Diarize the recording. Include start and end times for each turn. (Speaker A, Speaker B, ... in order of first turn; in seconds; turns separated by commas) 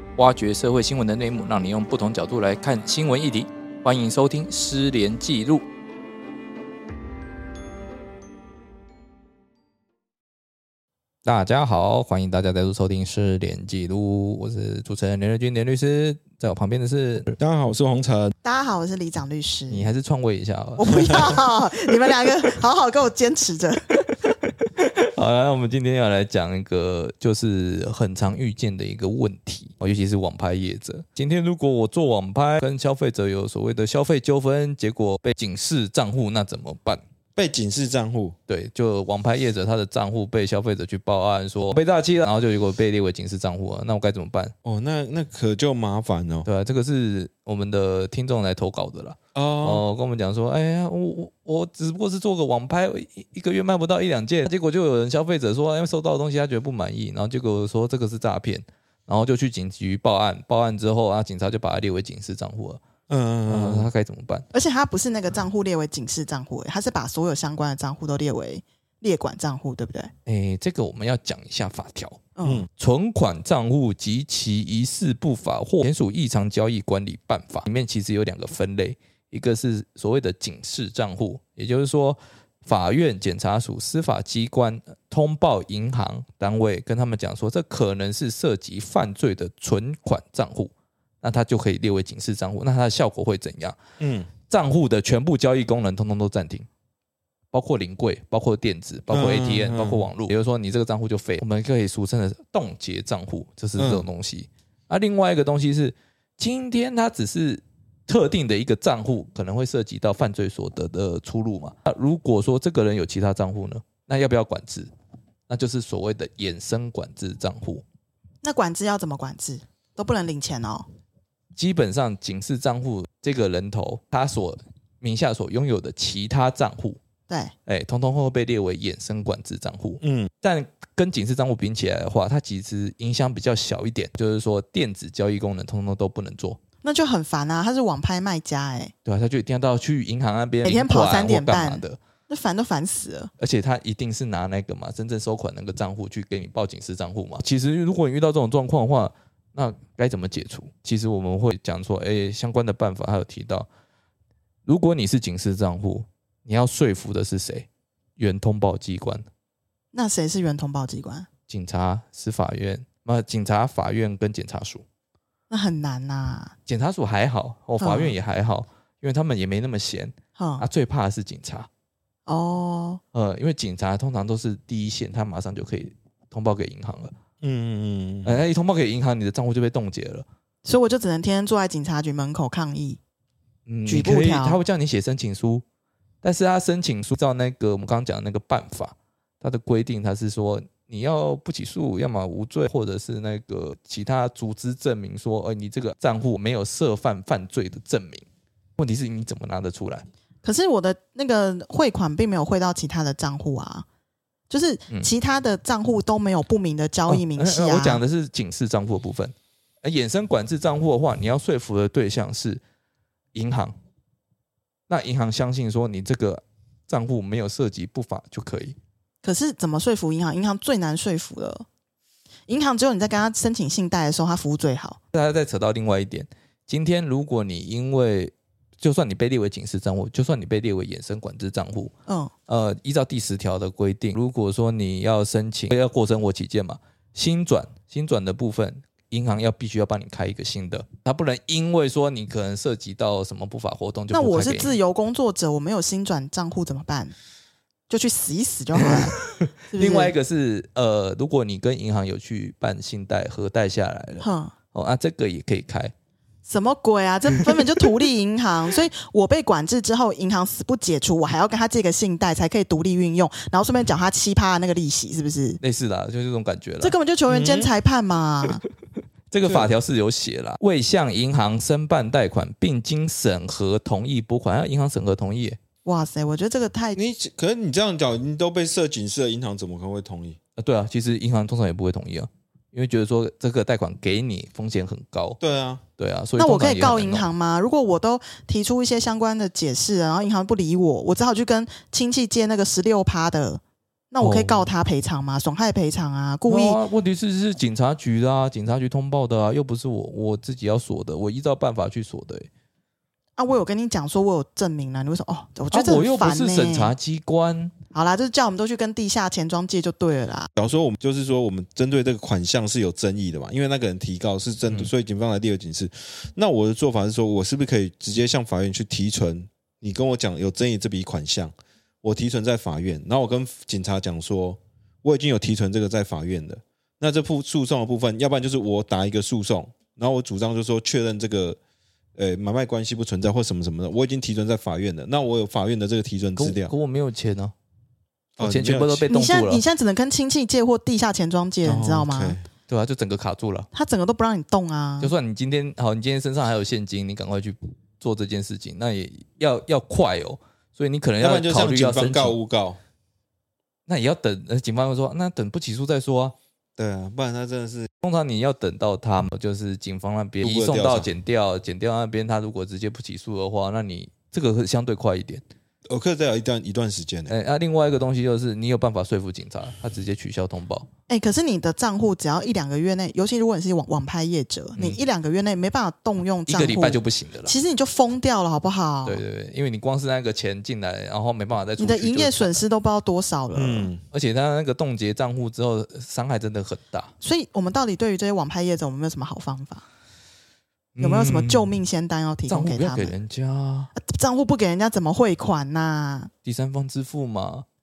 Speaker A: 0.2-5.6, Speaker A: 11.2-17.4, Speaker B: 17.4-18.3, Speaker C: 18.4-19.9, Speaker A: 19.7-21.4, Speaker C: 20.8-24.1, Speaker A: 24.3-37.0, Speaker B: 37.4-38.4, Speaker A: 38.5-44.5, Speaker B: 44.6-46.5, Speaker A: 46.5-62.8, Speaker B: 49.3-49.8, Speaker B: 63.1-63.9, Speaker A: 63.5-64.4, Speaker C: 64.5-70.1, Speaker A: 70.2-72.2, Speaker C: 72.4-72.7, Speaker A: 72.8-93.8, Speaker B: 94.0-94.3, Speaker A: 94.5-96.7, Speaker A: 97.5-114.9, Speaker B: 99.1-100.1, Speaker B: 103.8-104.0, Speaker A: 115.5-117.8, Speaker C: 118.4-120.9, Speaker A: 121.5-127.0, Speaker C: 127.3-127.5, Speaker A: 127.7-136.6, Speaker B: 130.0-130.3, Speaker C: 136.8-138.9, Speaker A: 139.0-142.0, Speaker C: 140.6-143.3, Speaker A: 143.4-153.7, Speaker A: 154.7-159.2, Speaker C: 159.9-161.3, Speaker A: 161.5-164.8, Speaker C: 165.5-166.5, Speaker A: 166.7-171.7, Speaker C: 167.8-168.1, Speaker C: 170.3-170.7, Speaker C: 172.3-173.0, Speaker A: 173.1-177.1, Speaker B: 177.4-178.4, Speaker A: 178.2-180.2, Speaker C: 180.6-183.0, Speaker A: 183.7-185.6, Speaker C: 183.8-184.6, Speaker A: 186.2-198.2, Speaker A: 198.8-200.1, Speaker C: 200.4-203.8, Speaker C: 204.5-208.0, Speaker A: 207.1-212.6, Speaker A: 213.3-213.8, Speaker A: 214.9-218.8, Speaker C: 219.2-221.6, Speaker C: 222.5-225.0, Speaker A: 225.1-231.9, Speaker C: 232.1-232.3, Speaker A: 232.5-244.7, Speaker C: 244.1-247.1, Speaker C: 247.9-249.2, Speaker A: 248.8-255.9, Speaker C: 249.7-250.1, Speaker C: 254.2-254.5, Speaker C: 256.4-265.6, Speaker A: 265.6-266.9, Speaker C: 266.8-268.6, Speaker B: 267.3-267.7, Speaker A: 269.3-275.6, Speaker B: 269.4-269.7, Speaker C: 275.8-277.0, Speaker B: 276.9-280.4, Speaker A: 280.6-285.4, Speaker B: 285.4-285.8, Speaker A: 286.0-287.2, Speaker C: 286.4-293.6, Speaker C: 294.1-296.8, Speaker A: 294.2-294.7, Speaker A: 296.5-302.5, Speaker C: 303.4-306.9, Speaker A: 305.7-307.7, Speaker C: 307.9-310.5, Speaker B: 310.6-331.6, Speaker B: 332.2-336.7, Speaker A: 336.4-337.5, Speaker B: 338.4-339.0, Speaker A: 338.4-339.6, Speaker C: 339.1-342.4, Speaker B: 341.6-342.4, Speaker A: 342.7-343.7, Speaker C: 343.7-345.1, Speaker A: 345.0-352.4, Speaker B: 351.2-352.8, Speaker A: 353.9-356.3, Speaker B: 356.8-357.9, Speaker A: 358.0-365.4, Speaker B: 360.4-361.1, Speaker B: 365.9-367.3, Speaker A: 367.3-370.9, Speaker C: 371.1-379.2, Speaker A: 374.7-375.0, Speaker A: 376.5-377.5, Speaker A: 379.0-382.6, Speaker C: 381.8-383.9, Speaker B: 383.5-384.0, Speaker A: 384.1-387.1, Speaker C: 387.2-389.8, Speaker A: 390.9-391.7, Speaker C: 391.0-393.1, Speaker A: 392.5-393.9, Speaker C: 393.9-396.3, Speaker A: 396.4-397.6